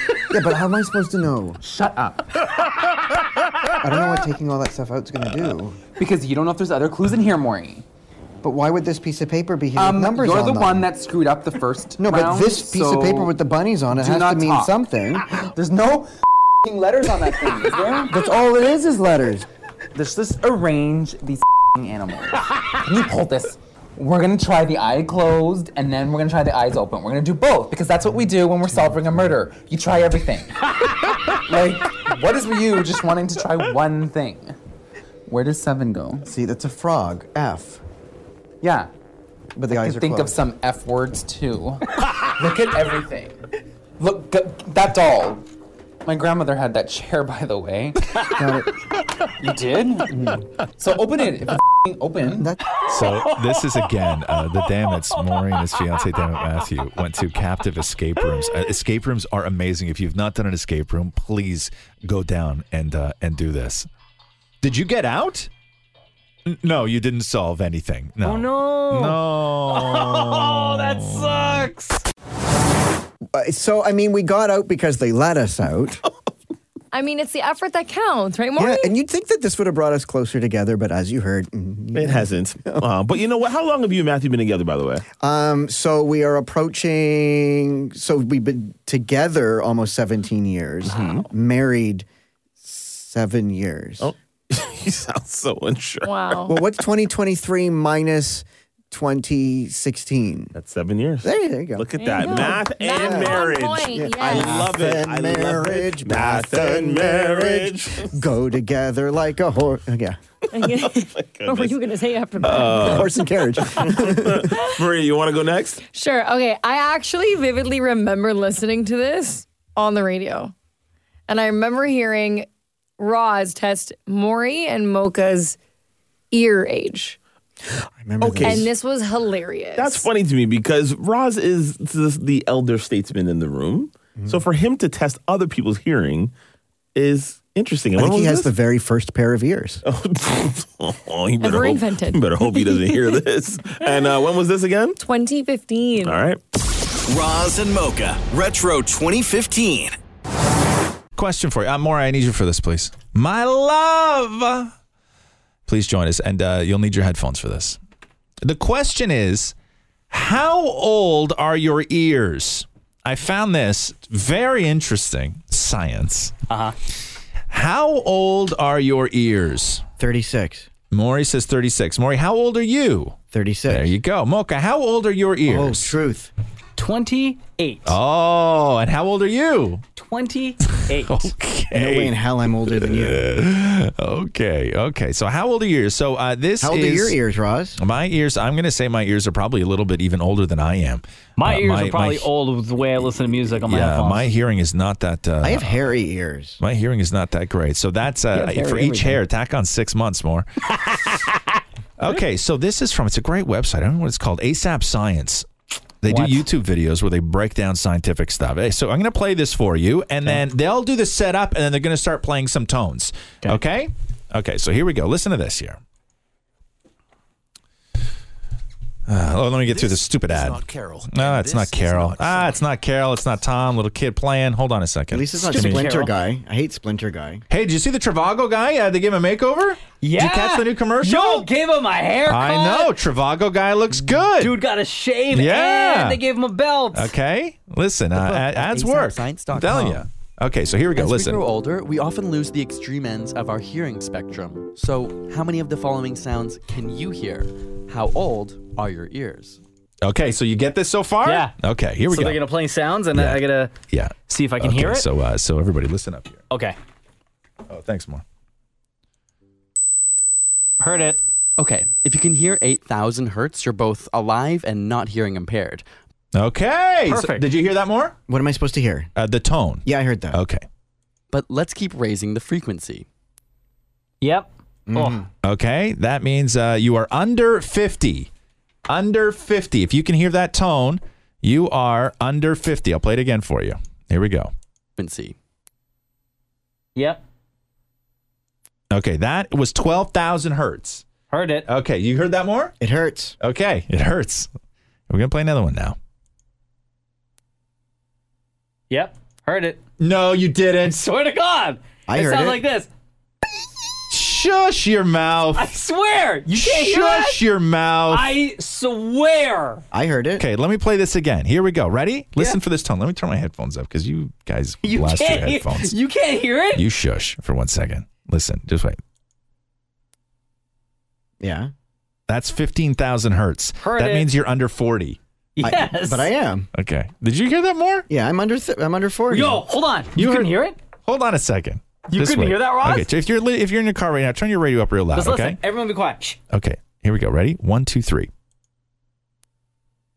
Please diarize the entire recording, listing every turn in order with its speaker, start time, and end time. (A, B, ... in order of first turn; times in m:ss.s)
0:00.3-0:01.6 A
0:01.6-0:02.7 B
0:03.8-0:05.8 A
0:06.0-0:07.8 B
0:08.4-0:10.9 A
0:09.8-0:13.3 B
0:12.0-0:15.4 A
0:13.9-0:14.8 B
0:15.4-0:16.1 B
0:16.6-0:18.2 B
0:18.1-0:19.5 A
0:19.9-0:30.7 B
0:31.3-0:34.6 B
0:35.3-0:36.3 B
0:36.2-0:37.8 A
0:38.6-0:38.9 B
0:39.6-0:40.4 A
0:39.7-0:41.8 B
0:42.4-0:43.4 B
0:44.0-0:45.4 B
0:46.0-0:48.0 B
0:48.3-0:48.7 A
0:49.4-0:52.5 B
0:52.4-0:52.6 A
0:52.8-0:53.9 C
0:52.9-1:03.9 D
0:54.5-0:56.5 C
0:58.2-0:58.5 C
1:04.6-1:05.5 D
1:06.4-1:11.7 D
1:08.2-1:12.0 C
1:13.3-1:16.0 A
1:16.9-1:18.9 E
1:18.6-1:22.8 A
1:21.9-1:25.0 F
1:25.2-1:32.1 A
1:30.9-1:31.2 F
1:32.6-1:34.1 A
1:34.0-1:36.4 F
1:36.0-1:36.6 E
1:36.5-1:40.5 A
1:40.5-1:48.1 F
1:41.2-1:50.2 A
1:42.0-1:44.7 E
1:50.5-1:53.2 E
1:50.7-1:51.8 F
1:52.4-1:55.8 F
1:52.5-1:54.5 A
1:54.5-1:54.8 E
1:55.9-2:00.5 E
2:01.3-2:02.5 E
2:03.0-2:05.6 E
2:06.3-2:07.2 E
2:07.8-2:08.7 A
2:08.2-2:08.7 F
2:08.4-2:10.1 E
2:09.8-2:16.3 F
2:14.2-2:14.4 A
2:16.9-2:18.5 F
2:18.0-2:19.8 A
2:19.8-2:25.0 F
2:21.4-2:23.2 E
2:23.8-2:24.1 E
2:25.0-2:26.2 E
2:26.0-2:26.4 F
2:27.1-2:29.9 G
2:31.2-2:34.7 D
2:35.7-2:37.8 D
2:38.4-2:39.5 D
2:40.1-2:46.3 D
2:46.5-2:46.8 C
2:47.5-2:49.8 D
2:50.0-2:50.7 A
2:50.9-2:53.2 D
2:53.3-2:53.9 A
2:53.7-2:55.9 D
2:55.4-2:56.3 A
2:56.8-2:58.0 C
2:57.8-2:59.8 D
3:00.0-3:01.3 C
3:00.7-3:02.1 D
3:01.7-3:03.2 A
3:02.8-3:07.2 D
3:06.6-3:07.8 A
3:07.8-3:12.3 D
3:11.4-3:14.3 C
3:13.5-3:15.8 D
3:15.4-3:16.6 A
3:16.6-3:20.4 D
3:18.3-3:19.2 C
3:20.8-3:21.2 C
3:22.0-3:25.5 D
3:26.0-3:35.8 D
3:26.1-3:26.4 C
3:39.1-3:46.0 D
3:41.2-3:42.4 H
3:45.1-3:47.4 A
3:45.4-3:46.1 C
3:47.5-3:51.5 D
3:50.0-3:52.9 C
3:52.3-3:54.6 D
3:54.4-3:57.1 C
3:55.3-3:56.2 D
3:56.9-4:01.4 D
3:58.1-4:00.0 H
4:00.9-4:09.6 H
4:10.0-4:12.4 D
4:11.2-4:11.6 C
4:12.1-4:13.7 C
4:13.1-4:16.4 D
4:14.3-4:15.1 C
4:16.5-4:16.8 C
4:17.7-4:18.2 D
4:20.8-4:21.2 C
4:21.6-4:25.8 H
4:26.3-4:28.2 D
4:27.1-4:27.5 C
4:28.3-4:29.1 A
4:29.2-4:30.6 D
4:29.8-4:30.4 A
4:31.3-4:33.1 H
4:34.2-4:35.2 C
4:34.9-4:35.3 A
4:35.4-4:38.3 D
4:38.9-4:44.5 D
4:45.0-4:45.4 H
4:47.0-4:47.2 C
4:48.9-4:51.0 D
4:51.3-4:51.7 C
4:51.7-4:52.7 D
4:52.8-4:53.4 A
4:53.4-4:54.5 D
4:55.1-4:56.0 D
4:58.9-4:59.8 C
5:00.0-5:01.0 D
5:00.9-5:02.9 C
5:02.1-5:02.6 A
5:04.1-5:05.7 D
5:05.6-5:07.4 C
5:06.5-5:08.4 D
5:08.1-5:09.8 C
5:09.9-5:10.4 A
5:10.4-5:16.0 D
5:14.8-5:16.8 C
5:16.7-5:19.0 D
5:21.4-5:21.7 A
5:22.3-5:25.2 D
5:23.8-5:24.3 C
5:25.6-5:26.3 C
5:25.6-5:26.7 A
5:26.7-5:28.1 D
5:28.1-5:29.6 A
5:29.3-5:30.8 C
5:30.2-5:35.6 D
5:32.1-5:33.1 C
5:35.2-5:36.4 C
5:36.5-5:38.3 D